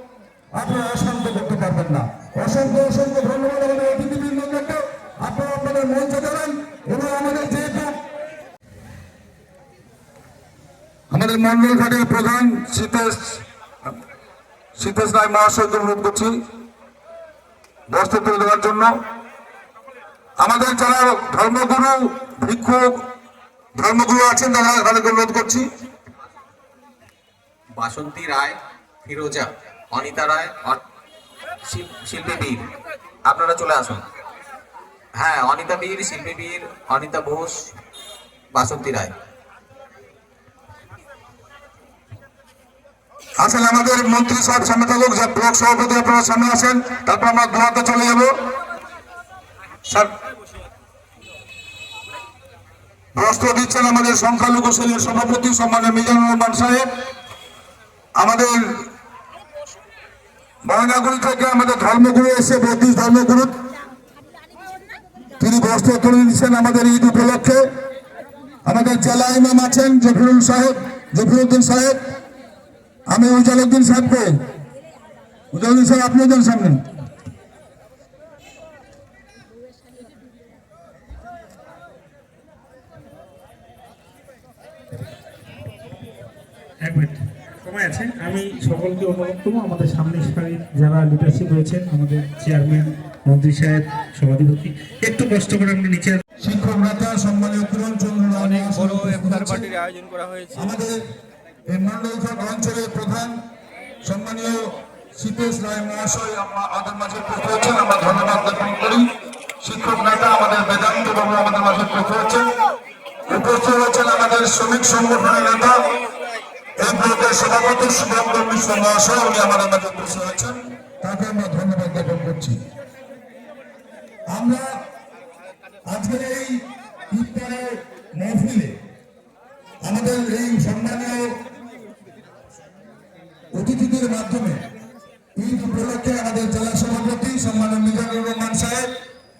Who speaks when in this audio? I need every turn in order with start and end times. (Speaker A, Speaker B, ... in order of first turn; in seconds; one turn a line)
Speaker A: 0.5-8.0
Speaker A: 11.1-13.4
Speaker A: 14.8-16.3
Speaker A: 17.9-18.9
Speaker A: 20.4-23.0
Speaker A: 23.8-25.7
Speaker B: 27.8-30.8
Speaker B: 31.6-32.7
Speaker B: 33.2-34.0
Speaker B: 35.1-37.6
Speaker B: 38.5-39.1
Speaker A: 43.4-48.3
Speaker A: 49.9-50.1
Speaker A: 53.1-56.9
Speaker A: 58.2-58.8
Speaker A: 60.6-63.5
Speaker A: 65.4-67.6
Speaker A: 68.6-72.0
Speaker A: 73.1-74.3
Speaker A: 75.5-76.8
Speaker C: 86.8-96.2
Speaker A: 96.4-99.7
Speaker D: 98.4-100.6
Speaker A: 100.5-101.0
Speaker A: 101.7-103.4
Speaker A: 104.0-109.1
Speaker A: 109.6-112.5
Speaker A: 113.3-115.8
Speaker A: 116.8-122.6
Speaker A: 124.3-124.7
Speaker A: 125.9-128.8
Speaker A: 129.8-131.3
Speaker A: 133.5-134.6
Speaker A: 135.4-138.9